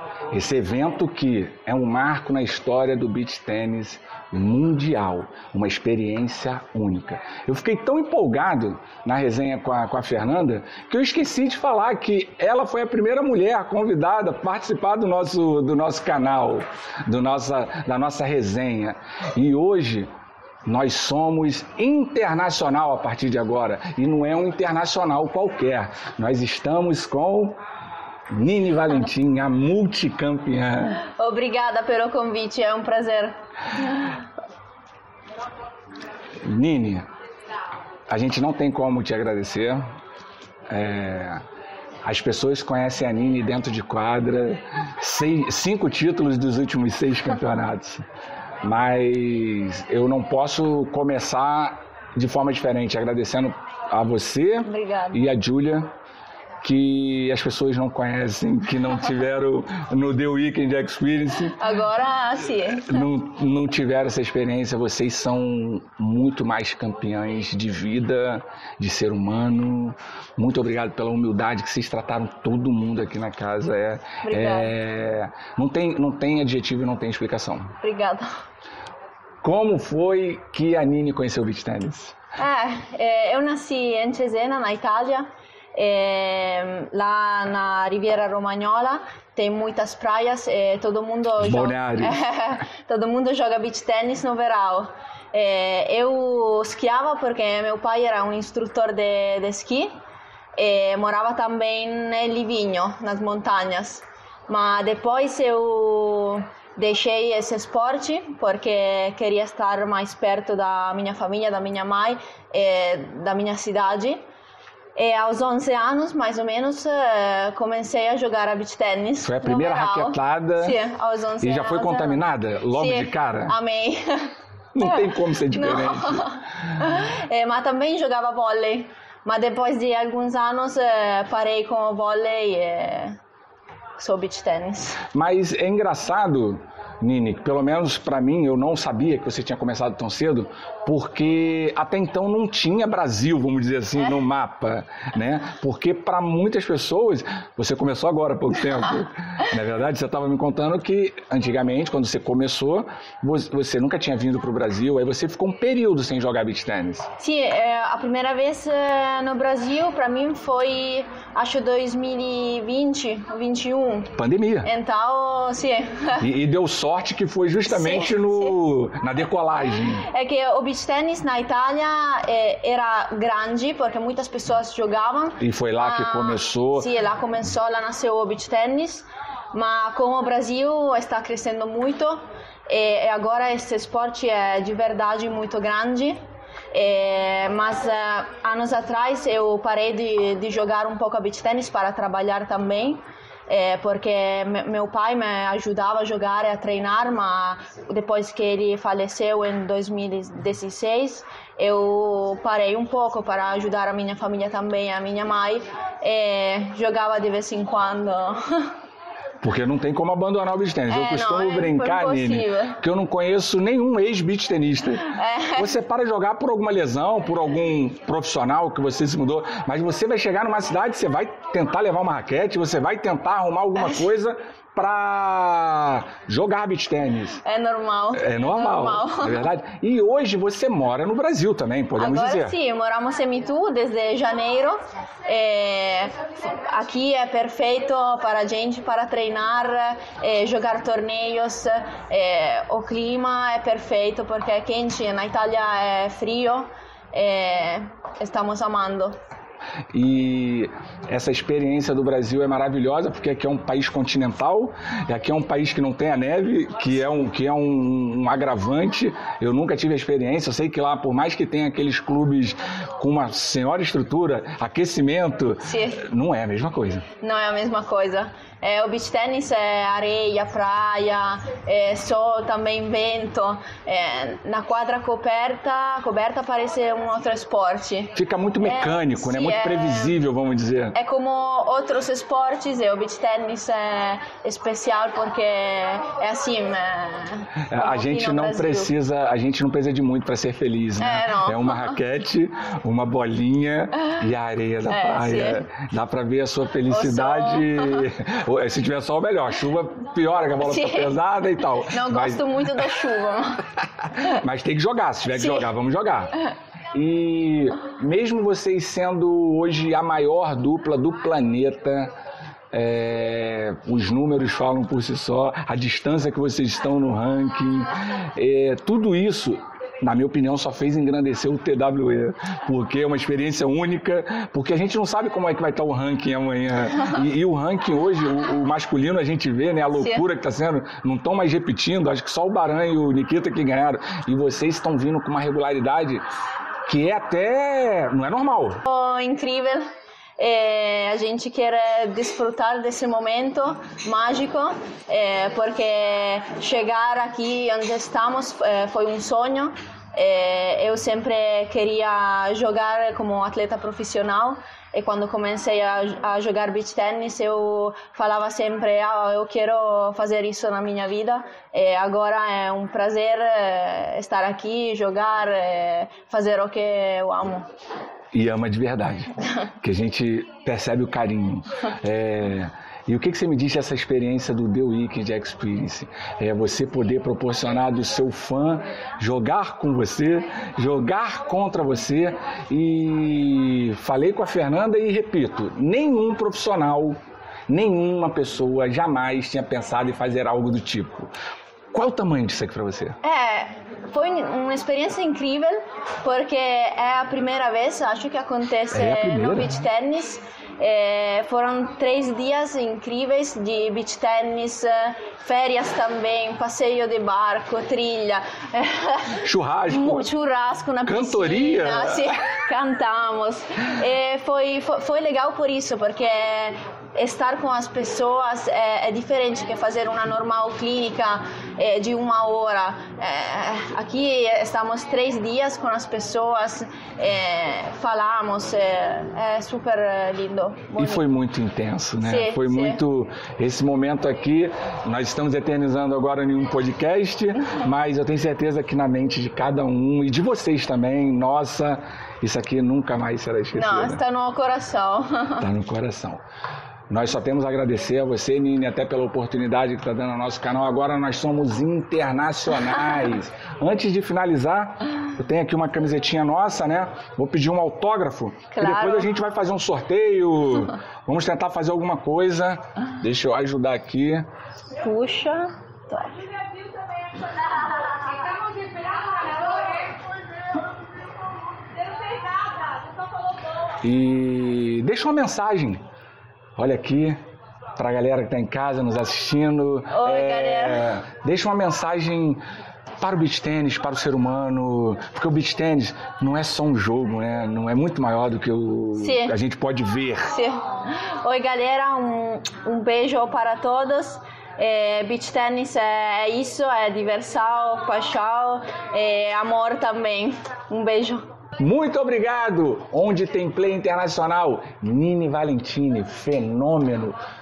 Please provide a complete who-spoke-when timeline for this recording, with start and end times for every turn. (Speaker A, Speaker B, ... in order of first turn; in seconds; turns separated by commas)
Speaker A: 0.3-20.1, Speaker A: 20.6-27.6, Speaker A: 28.3-31.0, Speaker B: 31.0-34.1, Speaker A: 36.4-37.1, Speaker A: 38.1-39.8, Speaker A: 40.7-41.4, Speaker A: 42.0-48.0, Speaker A: 48.6-55.9, Speaker B: 54.6-55.2, Speaker A: 56.6-61.6, Speaker B: 61.6-63.1, Speaker A: 62.7-77.7, Speaker B: 74.2-74.7, Speaker B: 77.8-78.3, Speaker A: 79.4-82.1, Speaker B: 82.4-99.9, Speaker A: 91.4-92.2, Speaker B: 100.6-114.2, Speaker B: 115.0-133.2, Speaker A: 119.2-120.8, Speaker A: 121.4-123.5, Speaker A: 124.7-126.3, Speaker B: 134.0-135.0, Speaker A: 135.1-157.1, Speaker B: 157.2-166.2, Speaker A: 164.2-164.7, Speaker A: 166.2-170.1, Speaker B: 167.7-168.5, Speaker B: 169.9-186.2, Speaker A: 175.4-176.9, Speaker B: 186.7-208.7, Speaker A: 209.4-227.4, Speaker B: 210.9-212.8, Speaker B: 215.0-215.7, Speaker B: 227.4-229.5, Speaker A: 228.1-232.6, Speaker B: 232.0-249.2, Speaker A: 249.9-267.0, Speaker B: 265.6-266.0, Speaker B: 267.2-280.2, Speaker A: 278.1-280.9, Speaker B: 280.9-288.9, Speaker A: 287.7-302.8, Speaker B: 291.0-291.9, Speaker B: 294.9-295.6, Speaker B: 296.9-298.1, Speaker B: 300.6-301.2, Speaker B: 301.8-303.6, Speaker A: 304.2-312.1, Speaker B: 305.3-305.6, Speaker A: 312.7-336.2, Speaker B: 329.9-330.2, Speaker A: 336.9-338.8, Speaker B: 338.8-339.8, Speaker B: 340.4-367.7, Speaker A: 368.3-387.2, Speaker A: 387.7-391.3, Speaker A: 391.9-393.2, Speaker B: 393.2-431.2, Speaker A: 398.9-399.8, Speaker A: 409.4-410.3, Speaker A: 411.1-412.3, Speaker A: 431.0-444.2, Speaker B: 432.2-433.0, Speaker B: 443.8-445.6, Speaker A: 445.6-446.4, Speaker A: 447.1-464.4, Speaker B: 458.7-459.3, Speaker B: 465.0-466.4, Speaker A: 474.0-476.0, Speaker A: 476.8-477.4, Speaker A: 478.0-482.6, Speaker B: 480.1-481.1, Speaker A: 483.2-490.6, Speaker B: 489.1-489.5, Speaker B: 490.5-501.4, Speaker A: 501.8-507.4